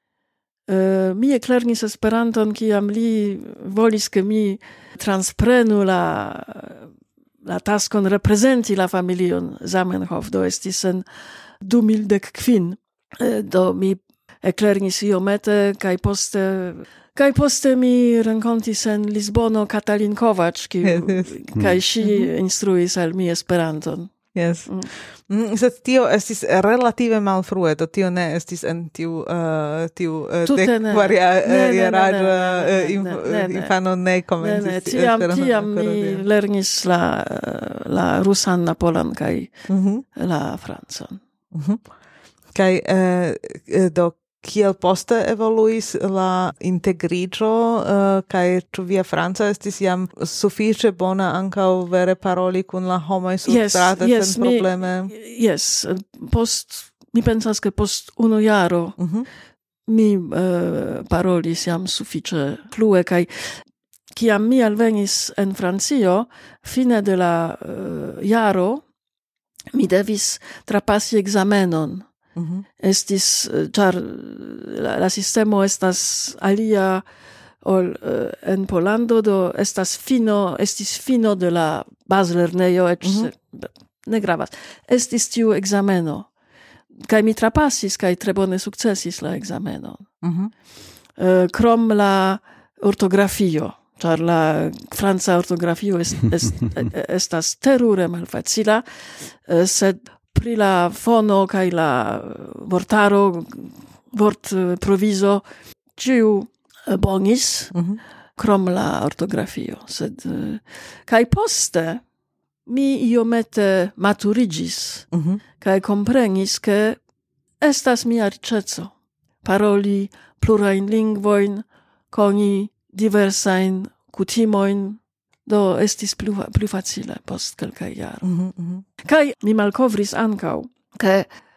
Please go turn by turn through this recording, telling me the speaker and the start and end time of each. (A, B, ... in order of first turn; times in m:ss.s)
0:00.7-0:06.8 A
0:07.4-0:11.0 A
0:11.6-0:24.1 A
0:20.8-0:21.3 B
0:22.0-0:22.3 B
0:24.3-0:36.2 B
0:30.4-0:33.7 A
0:34.4-0:39.5 A
0:39.7-0:40.0 B
0:40.2-0:41.2 A
0:41.5-0:41.8 B
0:42.5-0:55.1 B
0:53.4-0:59.0 A
0:59.0-0:59.2 B
0:59.9-1:03.6 A
1:04.1-1:08.8 A
1:09.7-1:12.0 A
1:12.4-1:12.6 B
1:12.8-1:17.0 A
1:17.6-1:26.3 A
1:23.0-1:23.3 B
1:27.0-1:30.0 A
1:30.2-1:30.5 B
1:31.2-1:45.4 A
1:46.0-1:47.7 A
1:47.7-1:48.0 B
1:48.4-1:52.0 A
1:52.7-1:55.1 A
1:55.1-1:55.4 B
1:55.6-1:57.0 A
1:57.6-1:58.9 A
1:59.4-2:08.2 A
2:08.2-2:08.8 B
2:09.0-2:11.3 A